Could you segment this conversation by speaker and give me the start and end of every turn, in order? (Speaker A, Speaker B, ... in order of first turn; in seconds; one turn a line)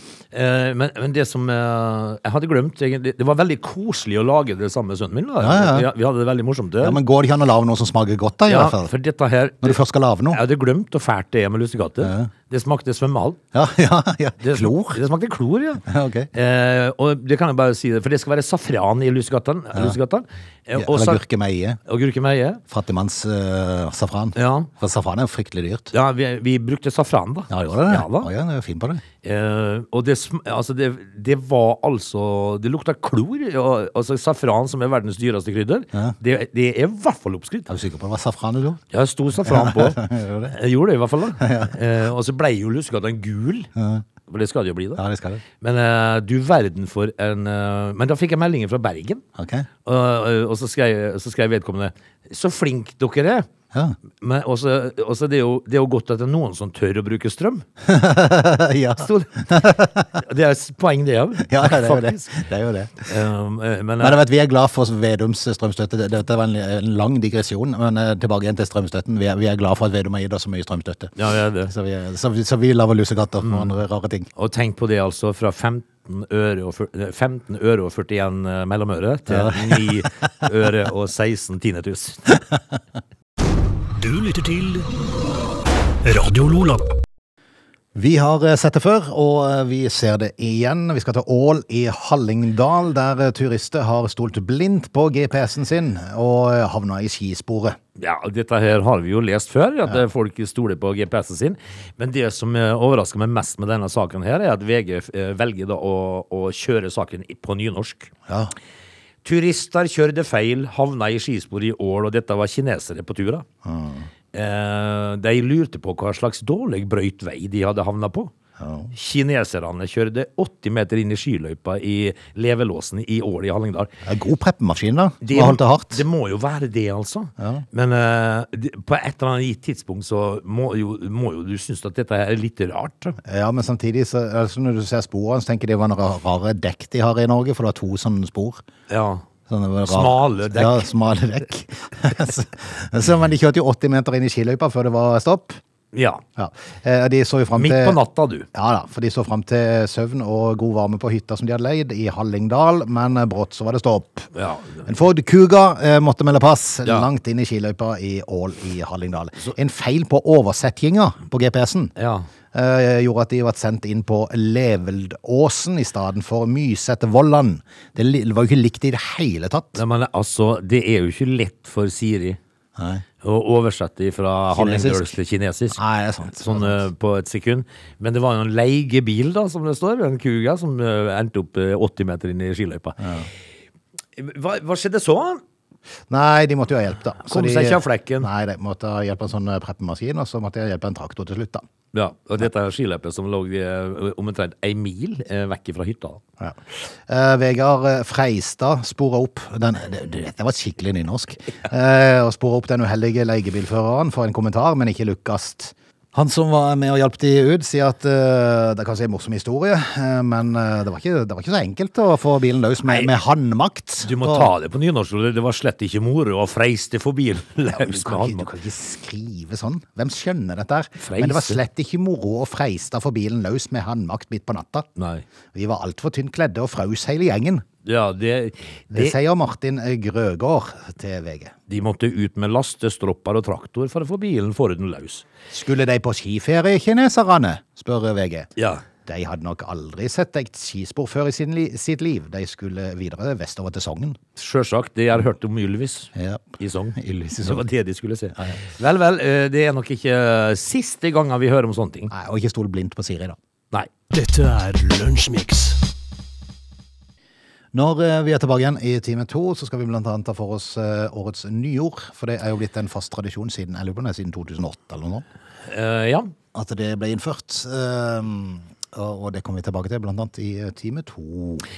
Speaker A: 0.3-7.0
Speaker B: 5.4-5.9
Speaker B: 6.8-8.9
Speaker A: 8.5-13.4
Speaker B: 9.6-10.4
Speaker B: 12.0-12.3
Speaker B: 13.5-15.0
Speaker A: 14.4-21.2
Speaker B: 15.8-16.3
Speaker B: 20.8-21.8
Speaker A: 21.9-22.6
Speaker B: 22.7-25.9
Speaker A: 24.4-24.7
Speaker A: 25.9-28.3
Speaker B: 27.5-29.0
Speaker A: 29.2-37.7
Speaker B: 37.7-38.8
Speaker A: 38.9-43.7
Speaker B: 39.4-40.5
Speaker B: 41.4-41.8
Speaker B: 43.8-44.1
Speaker A: 44.3-45.0
Speaker B: 45.0-45.4
Speaker A: 45.6-49.2
Speaker B: 49.4-49.7
Speaker A: 49.9-53.5
Speaker A: 54.1-57.6
Speaker B: 57.8-60.1
Speaker A: 59.0-62.3
Speaker B: 61.5-63.1
Speaker A: 63.0-64.2
Speaker B: 64.0-74.3
Speaker A: 71.2-71.7
Speaker A: 73.4-73.7
Speaker A: 74.4-82.4
Speaker B: 79.3-80.3
Speaker C: 84.0-84.9
Speaker C: 86.0-86.9
Speaker B: 88.0-97.8
Speaker A: 98.0-108.1
Speaker B: 108.3-108.5
Speaker A: 109.2-113.5
Speaker B: 113.7-114.1
Speaker A: 114.3-118.3
Speaker B: 118.6-118.9
Speaker A: 118.9-123.9
Speaker B: 124.0-126.0
Speaker A: 125.2-133.2
Speaker B: 127.4-127.7
Speaker B: 133.2-138.6
Speaker A: 138.9-139.3
Speaker B: 139.5-145.6
Speaker A: 139.9-140.9
Speaker A: 145.9-146.2
Speaker B: 146.4-148.0
Speaker A: 147.6-148.5
Speaker B: 148.5-154.3
Speaker A: 154.3-154.9
Speaker B: 154.8-161.9
Speaker A: 162.0-162.3
Speaker B: 162.5-169.8
Speaker A: 169.8-172.4
Speaker B: 172.8-173.0
Speaker A: 173.2-175.8
Speaker B: 174.5-175.1
Speaker B: 175.8-176.8
Speaker A: 176.4-183.1
Speaker B: 183.0-183.3
Speaker A: 184.2-185.4
Speaker B: 186.1-191.6
Speaker A: 187.3-188.3
Speaker A: 191.9-196.2
Speaker B: 196.4-214.5
Speaker A: 212.8-213.1
Speaker A: 214.0-218.5
Speaker B: 217.7-224.9
Speaker A: 221.0-221.6
Speaker A: 225.0-225.2
Speaker B: 225.5-227.7
Speaker A: 227.8-229.2
Speaker B: 228.9-231.6
Speaker A: 231.7-235.3
Speaker B: 235.5-238.5
Speaker A: 238.6-238.8
Speaker B: 239.1-244.2
Speaker A: 244.4-252.1
Speaker B: 246.2-247.7
Speaker B: 252.1-253.4
Speaker C: 254.1-255.8
Speaker B: 257.7-265.2
Speaker A: 265.7-266.3
Speaker B: 266.5-271.7